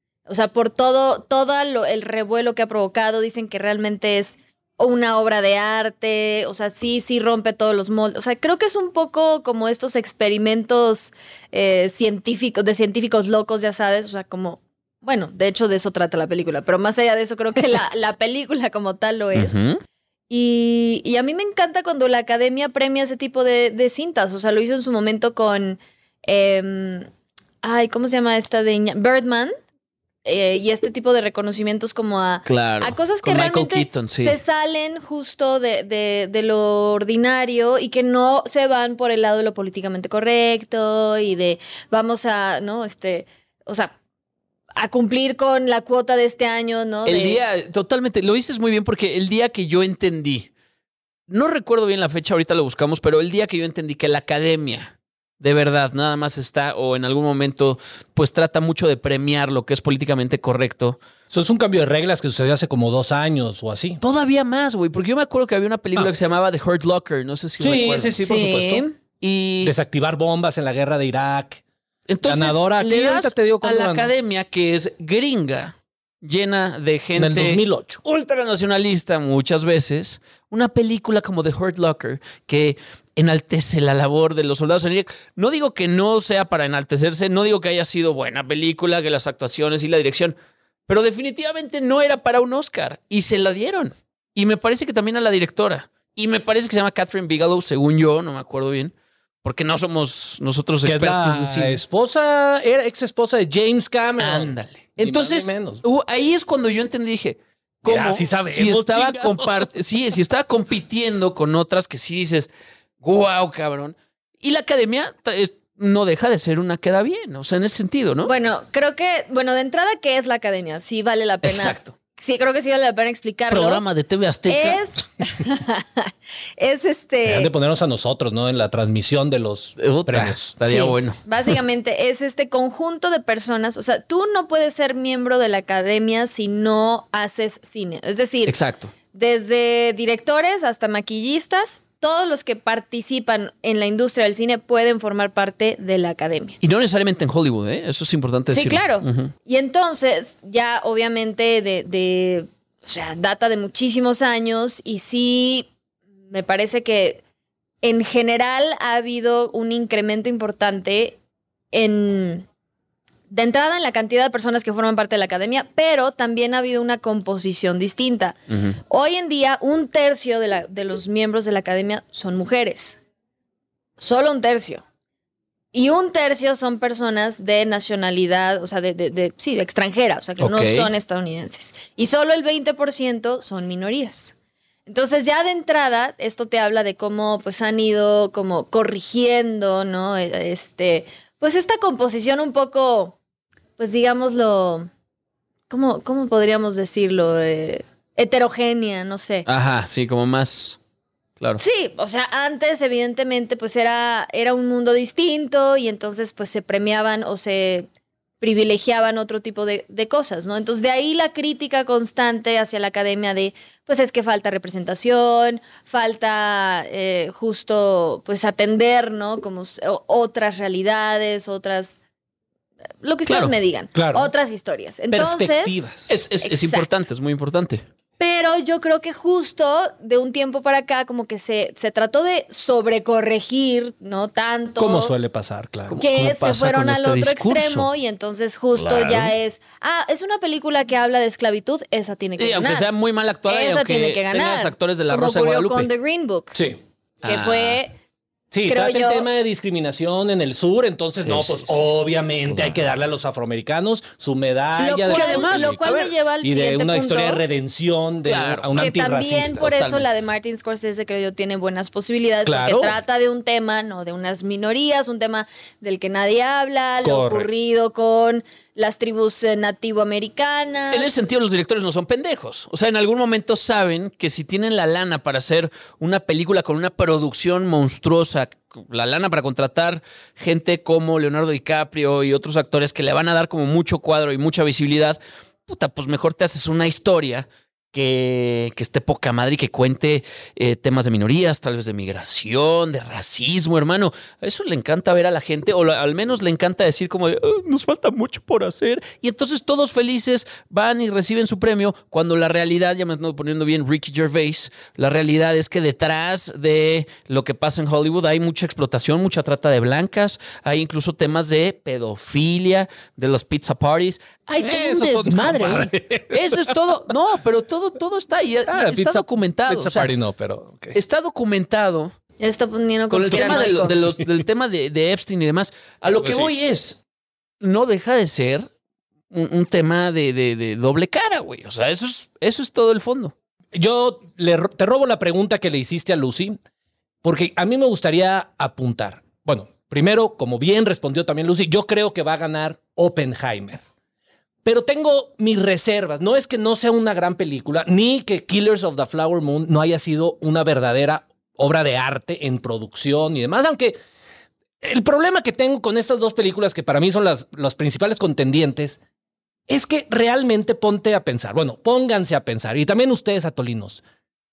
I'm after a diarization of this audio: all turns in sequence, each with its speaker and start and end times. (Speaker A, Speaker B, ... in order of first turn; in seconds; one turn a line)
Speaker A: 0.3-19.6
Speaker B: 19.3-19.8
Speaker A: 20.3-27.1
Speaker A: 27.6-29.5
Speaker A: 30.2-43.9
Speaker B: 32.4-34.4
Speaker A: 44.8-47.4
Speaker B: 47.0-50.5
Speaker B: 51.3-61.0
Speaker C: 61.3-64.0
Speaker B: 64.0-68.2
Speaker C: 67.6-68.8
Speaker A: 68.2-68.9
Speaker B: 69.2-69.7
Speaker C: 69.6-71.6
Speaker B: 72.1-90.3
Speaker C: 72.2-74.1
Speaker C: 77.2-78.0
Speaker B: 90.9-101.8
Speaker C: 100.8-105.8
Speaker B: 104.2-118.3
Speaker C: 107.8-109.7
Speaker A: 118.2-123.8
Speaker B: 121.4-121.9
Speaker B: 123.5-124.8
Speaker A: 124.5-127.5
Speaker C: 127.2-130.5
Speaker B: 129.8-131.2
Speaker A: 130.7-138.6
Speaker B: 138.4-138.9
Speaker A: 139.1-146.6
Speaker B: 146.6-149.3
Speaker A: 148.5-155.7
Speaker A: 156.3-157.2
Speaker A: 157.8-161.2
Speaker A: 161.7-162.4
Speaker A: 163.3-168.3
Speaker A: 168.9-173.0
Speaker A: 174.0-174.8
Speaker A: 175.7-184.3
Speaker B: 180.4-180.9
Speaker A: 184.9-193.2
Speaker A: 193.8-194.9
Speaker A: 195.7-199.5
Speaker B: 199.4-200.8
Speaker A: 201.6-207.9
Speaker A: 208.4-221.9
Speaker A: 223.0-225.8
Speaker B: 223.3-223.5
Speaker C: 223.9-224.3
Speaker C: 225.1-226.1
Speaker B: 226.1-227.8
Speaker A: 226.4-226.9
Speaker A: 228.2-235.1
Speaker C: 234.8-235.9
Speaker B: 235.9-237.9
Speaker A: 236.0-242.9
Speaker B: 238.8-239.3
Speaker B: 242.4-245.9
Speaker A: 243.5-246.6
Speaker C: 246.5-246.8
Speaker B: 247.2-247.8
Speaker A: 247.2-247.9
Speaker C: 248.5-259.7
Speaker A: 248.7-249.3
Speaker B: 251.2-251.8
Speaker B: 252.5-252.8
Speaker A: 254.8-257.4
Speaker B: 255.1-256.1
Speaker B: 258.2-260.1
Speaker A: 258.7-271.1
Speaker C: 262.4-263.0
Speaker C: 267.0-267.5
Speaker B: 270.9-320.1
Speaker C: 314.6-316.8
Speaker C: 318.7-321.0
Speaker B: 320.9-322.1
Speaker A: 322.4-323.9
Speaker B: 323.1-327.0
Speaker C: 323.3-324.4
Speaker C: 326.2-326.5
Speaker B: 327.6-328.7
Speaker B: 329.3-333.3
Speaker C: 333.7-336.6
Speaker C: 337.2-343.8
Speaker C: 344.6-353.9
Speaker C: 354.8-359.0
Speaker C: 359.7-364.0